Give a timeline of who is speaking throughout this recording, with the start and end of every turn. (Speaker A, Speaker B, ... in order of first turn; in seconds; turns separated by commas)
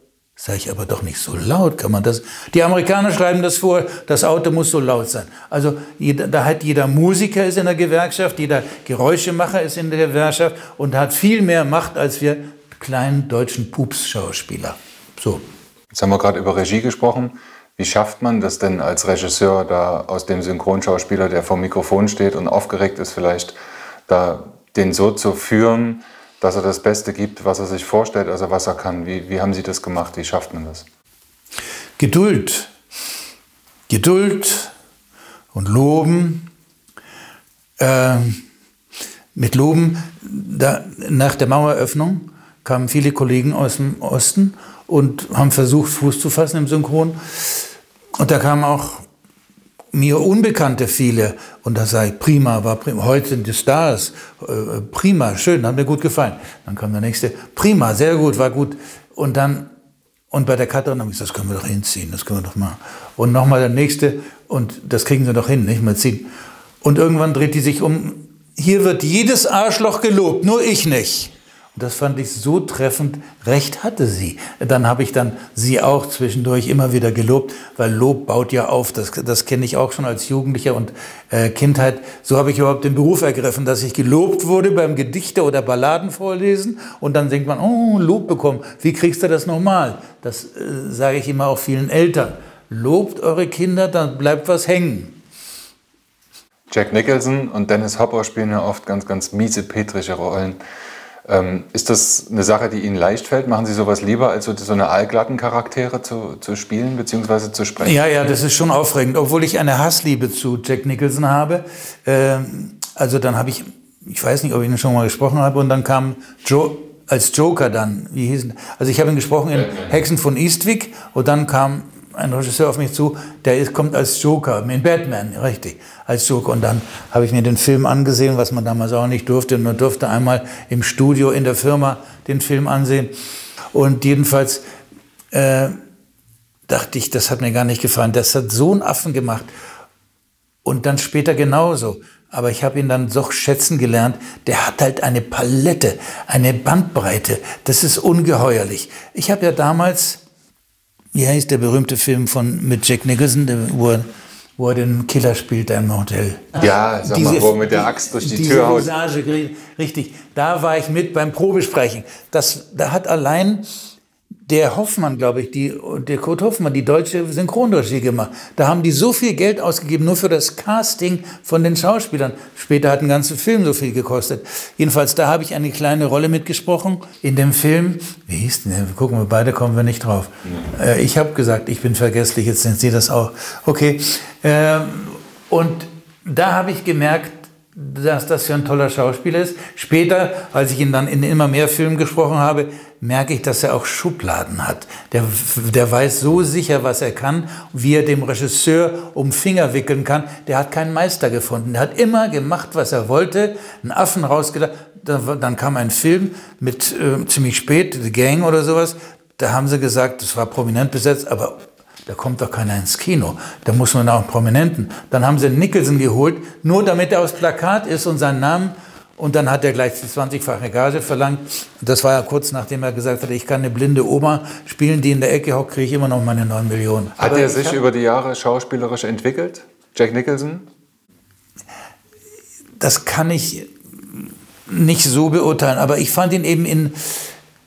Speaker A: 0.4-15.4, Speaker B: 15.9-23.6, Speaker B: 24.1-30.9, Speaker A: 32.0-32.7, Speaker A: 33.9-34.7, Speaker A: 35.5-36.5, Speaker A: 37.8-38.4, Speaker A: 39.4-49.1, Speaker A: 49.9-59.7, Speaker A: 60.3-66.3, Speaker A: 66.8-95.2, Speaker B: 96.7-100.6, Speaker B: 101.3-108.0, Speaker A: 107.8-133.1, Speaker B: 119.6-120.0, Speaker A: 133.7-134.6, Speaker A: 135.3-135.8, Speaker A: 136.7-139.5, Speaker A: 140.7-150.2, Speaker A: 151.1-154.1, Speaker A: 154.6-163.7, Speaker B: 156.6-158.9, Speaker A: 164.5-227.8, Speaker B: 227.2-230.7, Speaker A: 232.8-237.3